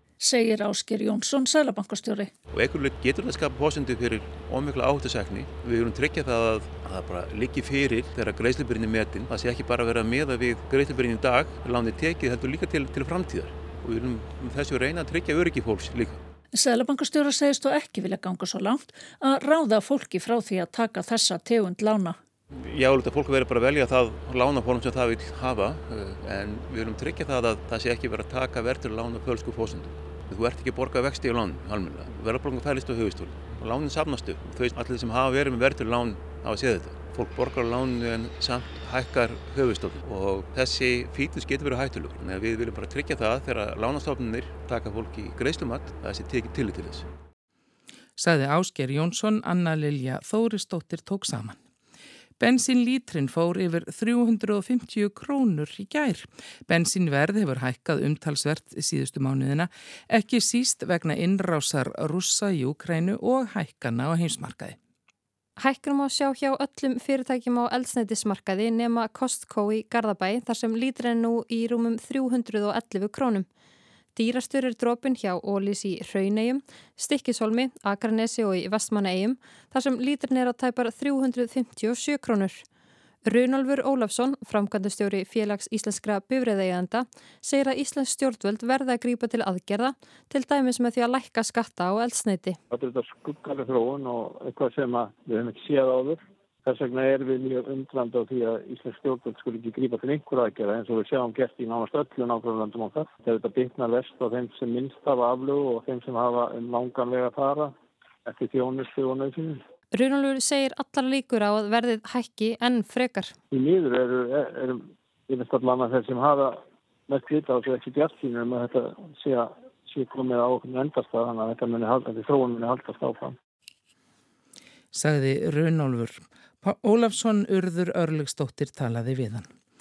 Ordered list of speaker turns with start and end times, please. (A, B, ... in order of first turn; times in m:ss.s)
0:00.2-0:02.3 A
0:02.5-0:16.2 B
0:16.5-0:22.2 A
0:22.5-0:47.1 B
0:48.2-0:51.6 C
0:52.4-1:04.8 C
1:05.6-1:13.5 D
1:14.2-1:22.6 D
1:23.3-1:32.6 D
1:32.7-1:47.7 E
1:48.3-1:49.6 E
1:49.9-1:53.3 D
1:53.5-2:03.4 E
2:04.9-2:09.5 C